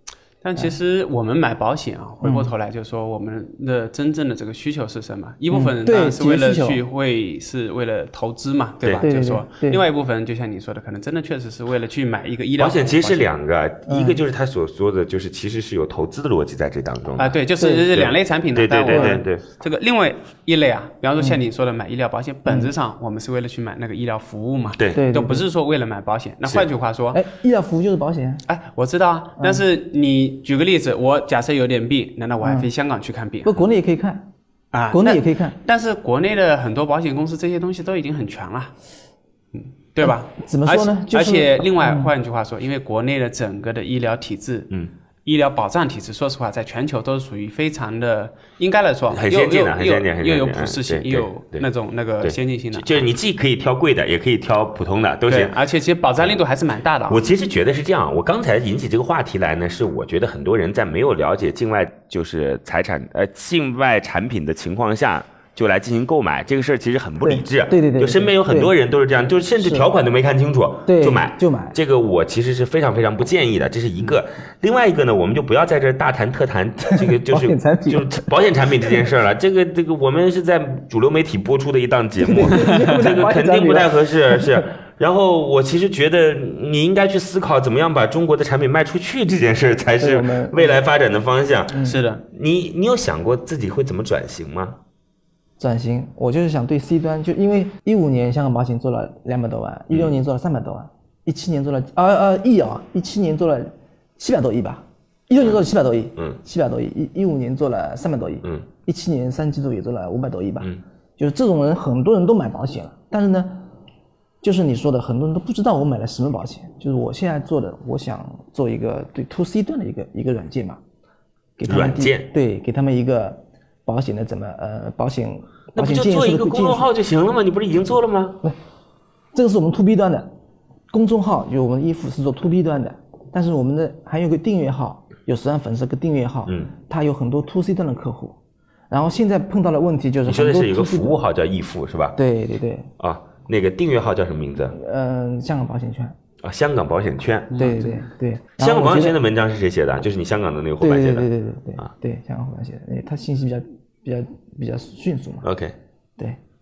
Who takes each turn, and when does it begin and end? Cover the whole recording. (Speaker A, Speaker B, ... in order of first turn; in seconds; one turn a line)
Speaker A: 0.4-13.2
Speaker B: 2.2-2.5
Speaker B: 5.5-6.8
Speaker B: 9.0-9.8
Speaker C: 12.6-17.4
Speaker B: 13.9-14.2
Speaker A: 17.2-27.2
Speaker B: 17.6-17.9
Speaker C: 17.9-19.4
Speaker B: 18.9-19.2
Speaker B: 24.9-25.4
Speaker B: 27.1-28.4
Speaker A: 28.5-33.6
Speaker B: 32.4-32.7
Speaker B: 33.4-34.3
Speaker A: 34.7-38.7
Speaker B: 34.9-35.5
Speaker A: 39.5-44.7
Speaker B: 40.0-42.1
Speaker A: 45.2-53.0
Speaker C: 49.1-51.7
Speaker C: 52.2-55.6
Speaker A: 55.3-57.2
Speaker C: 57.1-94.8
Speaker B: 67.2-68.7
Speaker B: 69.6-69.9
Speaker B: 70.8-71.8
Speaker B: 76.9-78.3
Speaker B: 78.8-79.1
Speaker B: 82.2-84.7
Speaker A: 82.5-83.0
Speaker B: 90.0-90.8
Speaker B: 91.7-92.0
Speaker A: 91.8-92.2
Speaker B: 95.6-113.7
Speaker C: 99.9-100.2
Speaker B: 114.4-120.8
Speaker B: 121.6-126.9
Speaker C: 121.7-122.3
Speaker C: 125.7-128.4
Speaker B: 129.3-130.3
Speaker B: 130.9-138.4
Speaker C: 136.5-136.7
Speaker B: 138.9-141.2
Speaker C: 140.2-142.2
Speaker B: 142.2-142.9
Speaker C: 143.0-144.8
Speaker B: 144.7-146.1
Speaker C: 146.4-147.7
Speaker A: 147.5-148.0
Speaker B: 147.6-149.2
Speaker C: 148.6-151.9
Speaker B: 150.8-155.4
Speaker C: 155.4-155.8